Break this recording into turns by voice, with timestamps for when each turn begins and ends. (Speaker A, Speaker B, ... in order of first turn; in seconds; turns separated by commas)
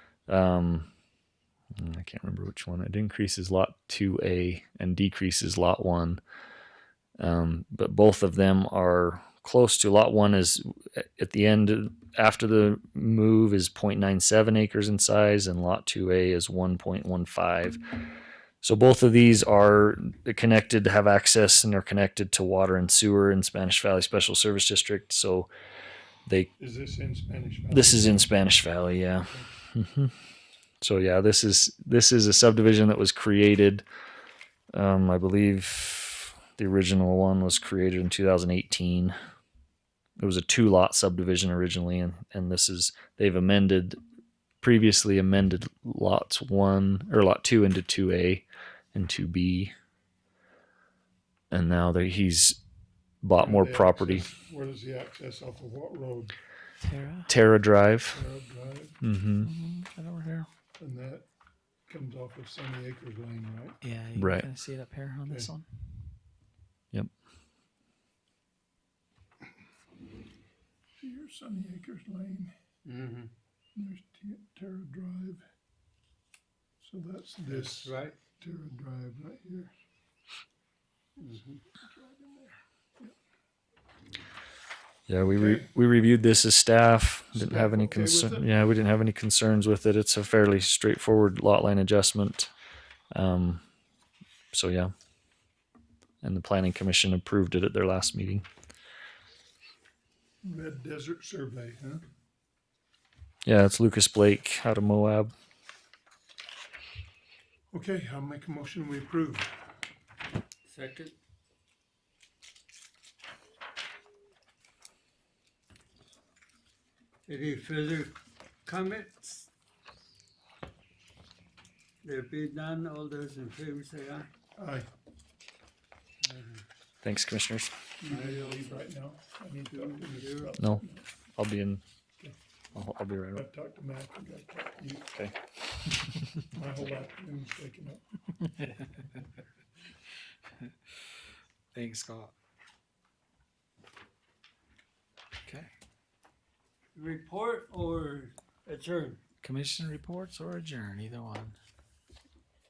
Speaker A: 0.3-0.9, Speaker A: 1.8-6.2, Speaker A: 7.2-17.8, Speaker A: 18.6-25.5, Speaker B: 26.6-28.4, Speaker A: 27.7-30.1, Speaker B: 29.3-29.5, Speaker A: 30.8-33.8, Speaker A: 34.7-39.1, Speaker A: 40.2-44.0, Speaker A: 44.6-49.7, Speaker A: 51.5-52.6, Speaker A: 53.2-54.2, Speaker B: 53.4-56.3, Speaker C: 56.8-57.3, Speaker A: 57.3-58.2, Speaker B: 58.1-59.0, Speaker A: 59.0-59.5, Speaker C: 59.4-60.5, Speaker B: 60.8-61.3, Speaker B: 61.9-63.8, Speaker C: 63.8-65.7, Speaker A: 64.2-64.5, Speaker B: 65.2-65.5, Speaker B: 71.0-72.5, Speaker D: 72.8-73.3, Speaker B: 73.7-75.4, Speaker B: 76.8-79.7, Speaker D: 77.5-78.2, Speaker D: 81.2-81.6, Speaker B: 81.8-83.1, Speaker A: 85.1-92.5, Speaker B: 85.2-85.7, Speaker B: 87.3-88.6, Speaker A: 93.1-93.6, Speaker A: 94.5-94.9, Speaker A: 96.2-98.5, Speaker B: 100.4-102.0, Speaker A: 103.5-105.3, Speaker B: 107.7-109.5, Speaker D: 110.7-111.2, Speaker D: 117.3-119.5, Speaker D: 122.0-124.3, Speaker B: 124.5-124.9, Speaker D: 126.2-126.6, Speaker A: 127.0-127.7, Speaker B: 128.0-131.0, Speaker D: 128.1-128.9, Speaker D: 129.6-130.6, Speaker A: 130.6-130.8, Speaker A: 131.3-131.8, Speaker A: 132.7-133.4, Speaker B: 133.3-135.1, Speaker B: 136.5-138.0, Speaker C: 141.7-142.3, Speaker C: 145.4-145.7, Speaker D: 146.9-149.2, Speaker C: 149.4-151.6